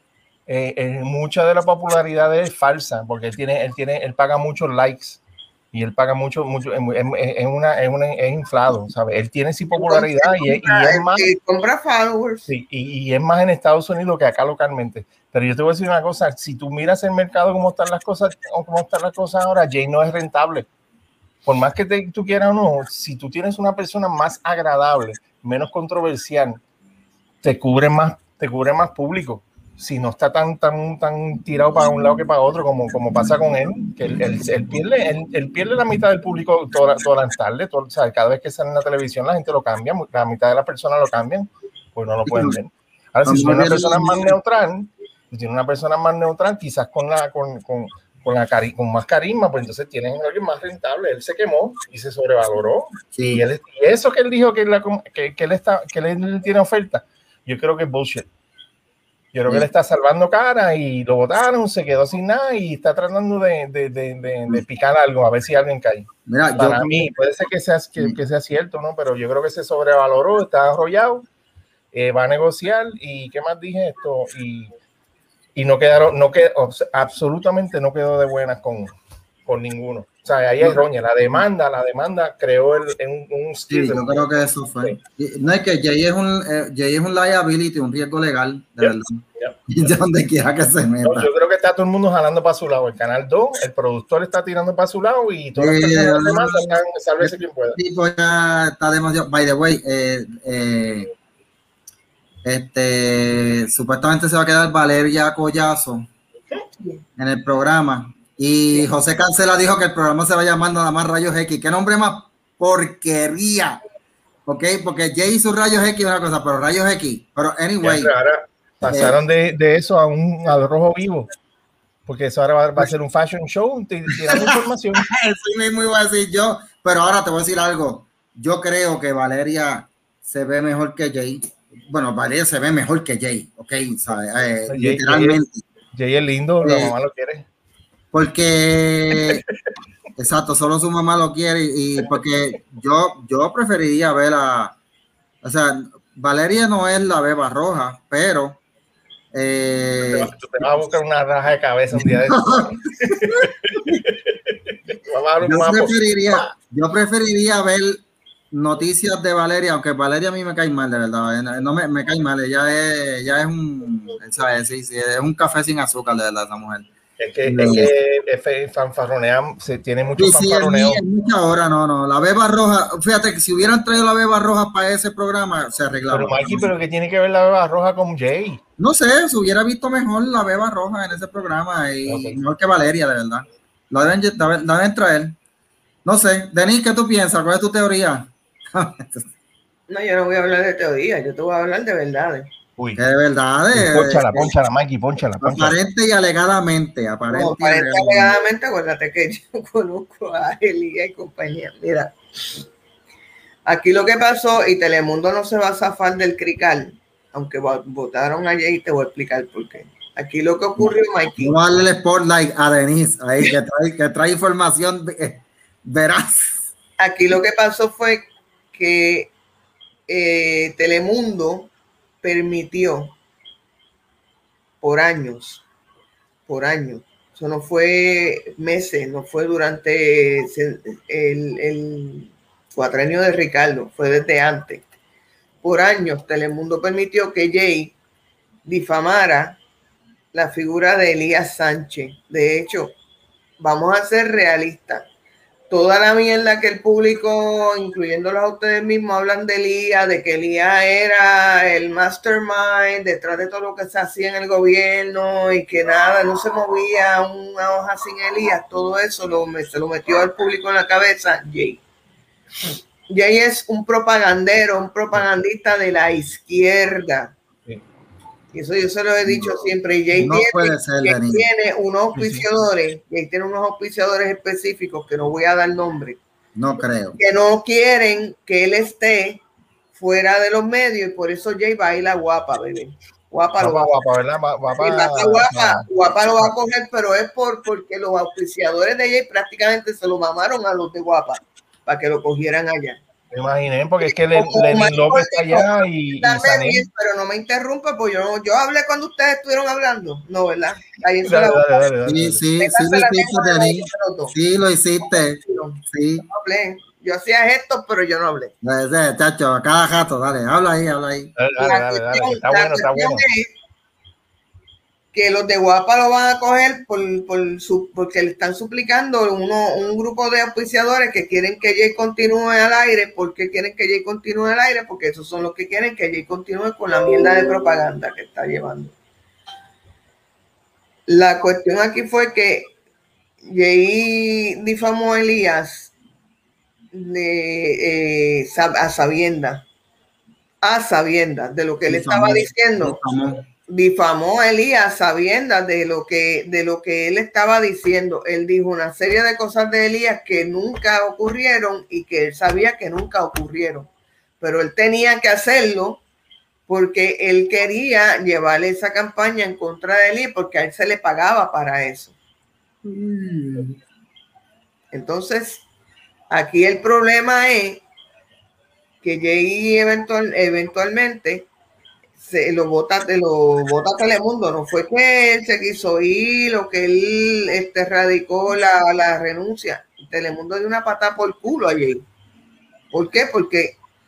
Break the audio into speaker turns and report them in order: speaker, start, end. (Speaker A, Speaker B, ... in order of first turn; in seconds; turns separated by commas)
Speaker A: 0.5-5.2, Speaker A: 5.7-11.3, Speaker B: 9.7-12.5, Speaker A: 12.5-20.7, Speaker A: 21.4-26.6, Speaker A: 27.4-58.3, Speaker C: 42.2-42.6, Speaker C: 43.3-44.4, Speaker C: 53.1-53.4, Speaker A: 59.3-71.2, Speaker C: 66.3-67.1, Speaker A: 71.9-74.7, Speaker A: 75.6-79.0, Speaker A: 79.5-85.0, Speaker C: 83.7-91.3, Speaker A: 88.8-89.6, Speaker A: 91.0-97.8, Speaker C: 95.6-101.1, Speaker C: 102.4-106.1, Speaker C: 107.2-113.8, Speaker C: 114.5-118.1, Speaker A: 117.8-121.3, Speaker C: 118.9-119.2, Speaker A: 122.1-125.0, Speaker C: 124.1-135.7, Speaker A: 134.7-135.4, Speaker A: 135.9-137.4, Speaker C: 136.6-136.9, Speaker C: 138.1-139.4, Speaker A: 139.1-139.5, Speaker C: 140.2-144.8, Speaker C: 145.4-148.6, Speaker C: 149.3-150.7, Speaker A: 150.0-156.5, Speaker C: 151.9-154.0, Speaker C: 155.4-166.9, Speaker A: 167.2-171.0, Speaker C: 167.5-167.9, Speaker C: 170.2-176.7, Speaker A: 176.1-178.6, Speaker C: 178.8-185.4, Speaker A: 182.1-182.4, Speaker C: 186.1-189.3, Speaker B: 189.9-192.5, Speaker A: 192.8-193.0, Speaker C: 193.0-194.5, Speaker A: 193.7-195.8, Speaker C: 195.4-198.4, Speaker B: 197.3-202.2, Speaker B: 203.7-211.6, Speaker C: 211.4-216.7, Speaker B: 217.0-219.3, Speaker B: 220.1-221.7, Speaker B: 222.2-223.2, Speaker B: 224.8-225.6, Speaker B: 226.5-234.8, Speaker B: 235.6-238.0, Speaker B: 238.7-239.6, Speaker B: 240.3-242.9, Speaker B: 243.6-245.1, Speaker B: 245.7-261.8, Speaker B: 263.1-267.3, Speaker B: 268.5-276.2, Speaker C: 269.3-269.6, Speaker C: 270.1-271.5, Speaker A: 272.2-272.5, Speaker C: 276.6-277.2, Speaker B: 277.2-279.4, Speaker B: 279.9-283.9, Speaker A: 283.6-286.5, Speaker B: 284.8-293.0, Speaker A: 293.3-296.9, Speaker B: 294.1-295.7, Speaker B: 296.2-301.8, Speaker A: 301.2-302.4, Speaker C: 302.1-306.3, Speaker B: 302.6-304.4, Speaker B: 305.4-308.5, Speaker C: 308.6-311.3, Speaker A: 311.4-313.2, Speaker B: 311.6-313.5, Speaker B: 315.1-328.9, Speaker B: 331.1-332.7, Speaker B: 333.4-335.9, Speaker B: 336.9-339.6, Speaker B: 340.6-343.0, Speaker C: 341.9-343.4, Speaker B: 343.7-353.9, Speaker B: 354.4-356.0, Speaker B: 356.7-362.1, Speaker B: 364.9-365.6, Speaker B: 366.3-367.8, Speaker B: 369.0-371.5, Speaker B: 372.2-382.1, Speaker B: 382.9-383.8